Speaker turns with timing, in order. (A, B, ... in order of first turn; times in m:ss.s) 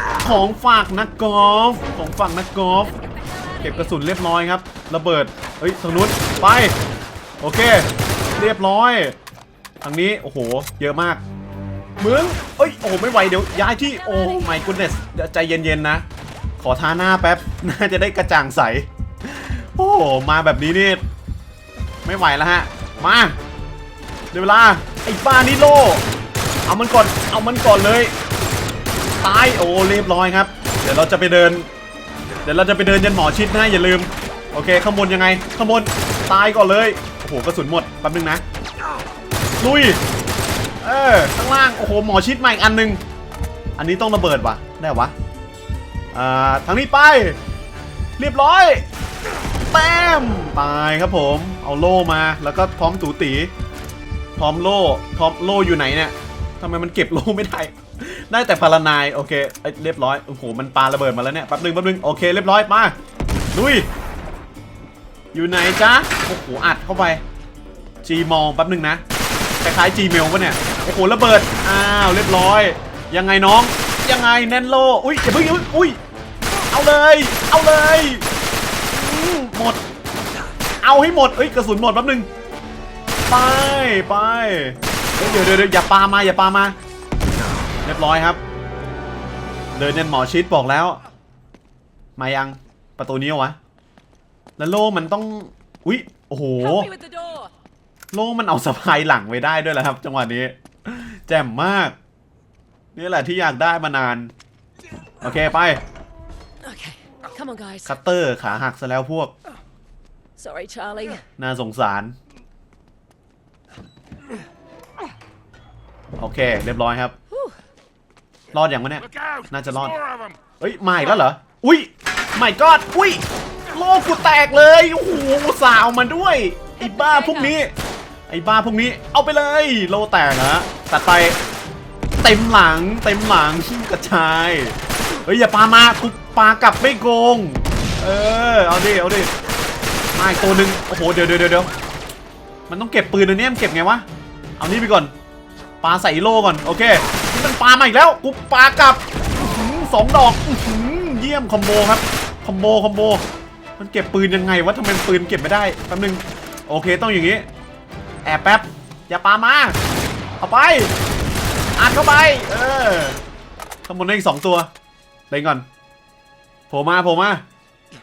0:00.2-0:02.9 A
0:02.8-0:04.0 B
0:03.6-0:06.7 A
0:07.4-0:09.2 A
0:09.8-0:11.2 A
0:12.0-0:16.0 A
0:13.7-0:15.0 B
0:16.6-0:21.0 A
0:22.0-0:23.4 A
0:24.3-0:26.0 A
0:26.7-0:28.1 A
0:29.2-0:31.7 A
0:32.4-0:38.4 A
0:39.6-0:40.0 A
0:40.8-0:43.0 A
0:43.8-0:45.1 A
0:46.1-0:47.4 A
0:48.2-0:48.8 A
0:49.6-0:53.5 A
0:54.4-1:02.9 A
1:03.5-1:03.9 A
1:05.3-1:07.2 A
1:08.0-1:09.0 A
1:09.6-1:16.0 A
1:16.7-1:18.2 A
1:18.9-1:19.8 A
1:20.8-1:22.3 A
1:23.3-1:26.8 A
1:27.8-1:28.4 A
1:29.7-1:31.0 A
1:32.2-1:33.6 A
1:34.6-1:36.9 A
1:36.6-1:37.5 B
1:38.1-1:42.0 A
1:43.0-1:44.3 A
1:45.2-1:45.8 A
1:46.6-1:48.0 B
1:47.8-1:49.3 A
1:50.4-1:51.2 B
1:51.4-1:52.1 A
1:56.2-1:57.1 A
1:57.3-1:57.6 B
1:58.5-1:59.9 A
1:59.0-2:01.2 C
2:00.6-2:07.7 A
2:06.8-2:07.6 B
2:08.3-2:11.4 A
2:12.2-2:19.3 A
2:20.1-2:21.7 A
2:22.7-2:24.0 A
2:24.6-2:25.1 A
2:25.8-2:33.2 A
2:33.8-2:37.4 A
2:38.2-2:39.8 A
2:40.4-2:40.9 A
2:41.8-2:43.2 A
2:43.8-2:44.7 A
2:45.3-2:45.6 A
2:46.7-2:47.4 A